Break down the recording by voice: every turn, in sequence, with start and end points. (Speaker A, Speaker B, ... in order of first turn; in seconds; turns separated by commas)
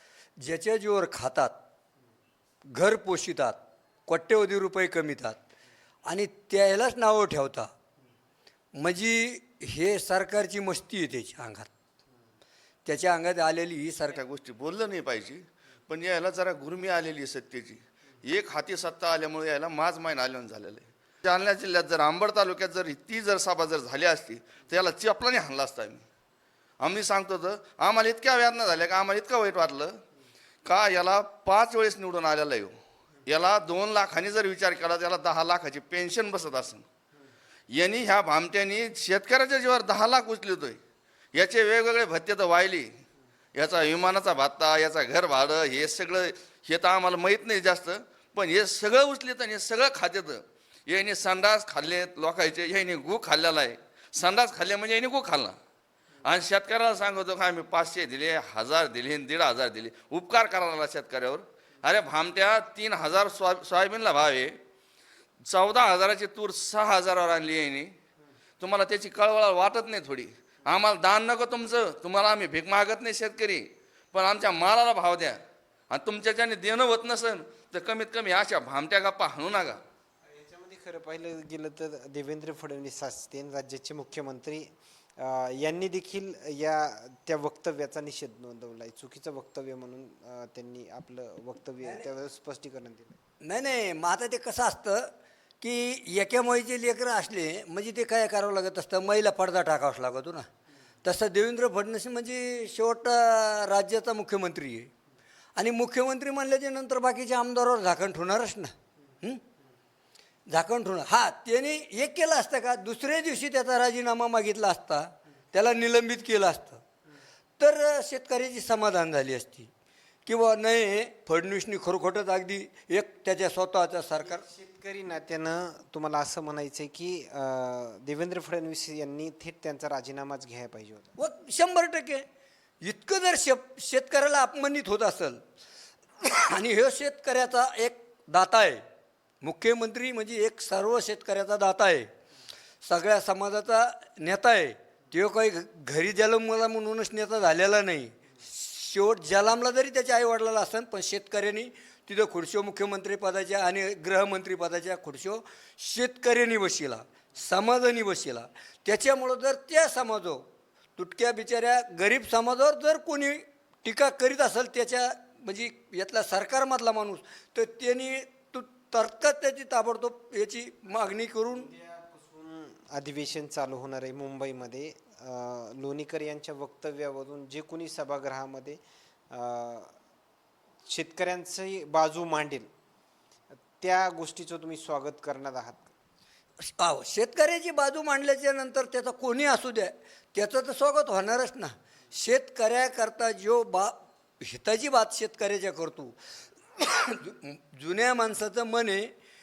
Speaker A: 0.4-1.6, Speaker A: 2.7-5.4, Speaker A: 6.0-7.7, Speaker A: 8.7-11.7, Speaker A: 12.8-14.2, Speaker B: 14.1-26.0, Speaker B: 26.8-30.0, Speaker B: 30.6-32.7, Speaker B: 33.2-36.8, Speaker B: 37.7-40.8, Speaker B: 41.3-43.0, Speaker B: 43.5-55.6, Speaker B: 56.2-64.6, Speaker B: 65.4-67.9, Speaker B: 68.6-79.8, Speaker C: 80.2-93.2, Speaker A: 93.4-100.5, Speaker A: 101.0-104.9, Speaker A: 105.5-109.4, Speaker A: 110.5-116.8, Speaker A: 117.6-119.7, Speaker A: 120.2-124.4, Speaker C: 124.2-131.2, Speaker A: 131.2-132.2, Speaker A: 132.8-135.4, Speaker A: 136.2-138.8, Speaker A: 139.4-142.1, Speaker A: 142.8-160.4, Speaker A: 161.0-171.7, Speaker C: 171.5-178.8, Speaker C: 179.3-179.9, Speaker C: 180.8-182.7, Speaker C: 183.7-185.9, Speaker A: 186.6-196.2, Speaker A: 196.7-199.1